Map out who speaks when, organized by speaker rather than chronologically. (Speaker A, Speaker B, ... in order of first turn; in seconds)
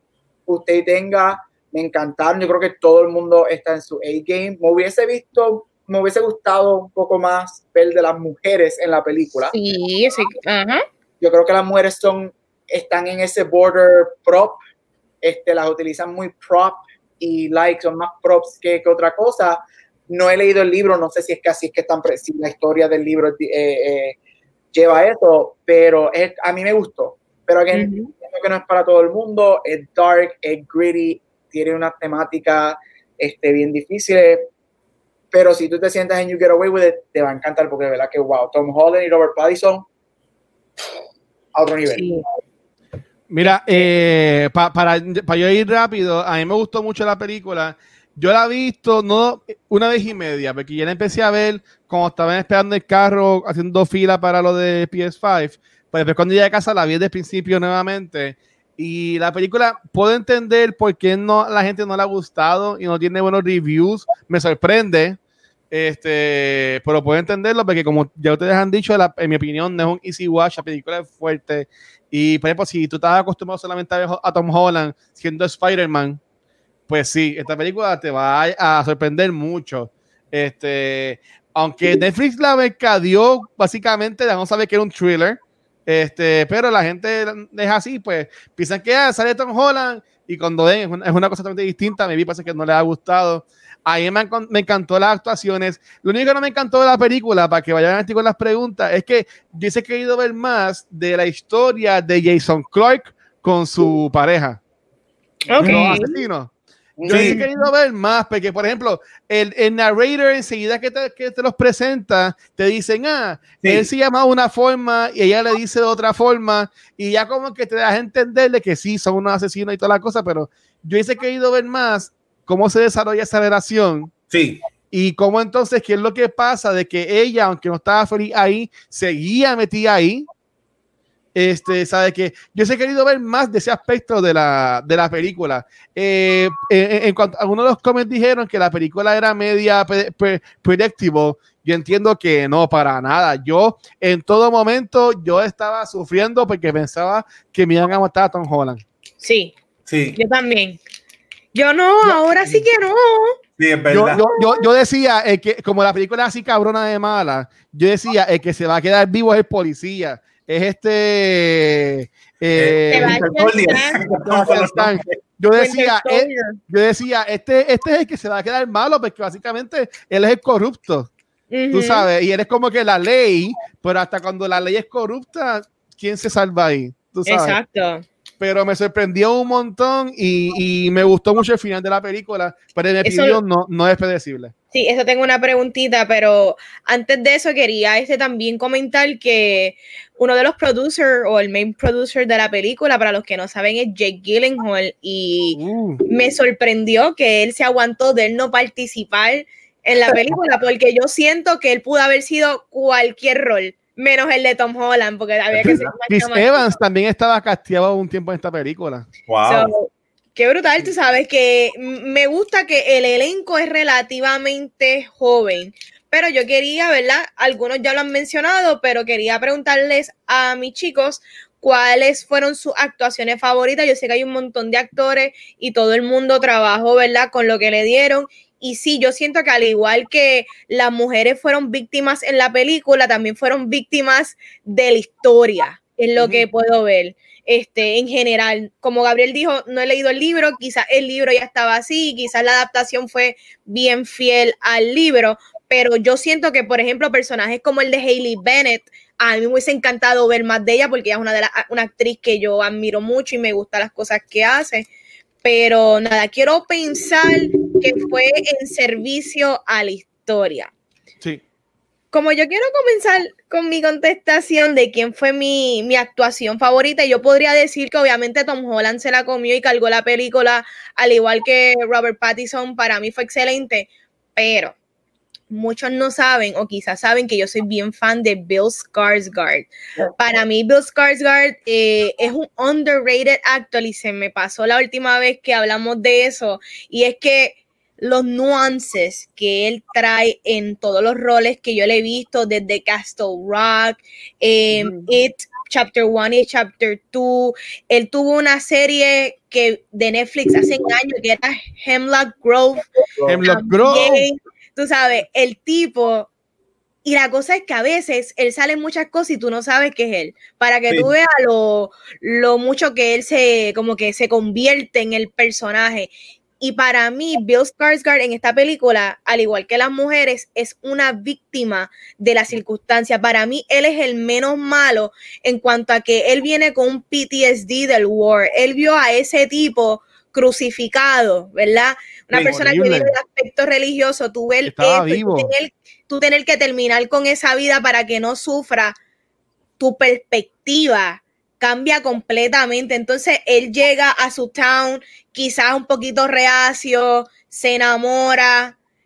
Speaker A: 0.5-9.6, 11.2-14.6, 15.2-24.1, 24.7-34.5, 35.3-39.9, 41.5-42.0, 107.0-107.2, 302.9-303.9
Speaker B: 9.5-10.8, 27.7-28.1, 41.9-42.2, 105.5-106.2, 107.3-107.7, 149.2-149.5, 150.1-150.8, 151.5-153.4, 154.2-154.6, 162.9-164.0, 165.6-166.6, 171.5-172.1, 177.2-178.0, 183.0-183.4, 184.7-206.7, 209.4-254.9, 255.4-260.7, 262.1-274.8, 275.5-302.8, 303.4-306.3, 307.0-316.1, 316.6-338.9, 339.8-348.8
Speaker C: 43.3-65.2, 65.7-76.2, 76.9-104.6, 105.6-106.5, 107.1-124.1, 124.9-130.3, 131.3-148.8, 153.9-163.2, 164.1-171.1, 171.7-177.6, 178.4-184.5, 195.6-196.0, 205.6-209.1, 236.2-236.4, 294.7-295.1, 303.2-304.3, 332.3-333.1, 334.6-335.5
Speaker D: 105.6-106.0, 107.1-107.4, 113.6-113.9, 124.3-124.6, 149.8-150.2, 153.6-154.2, 162.6-165.2, 205.5-205.9, 209.3-209.7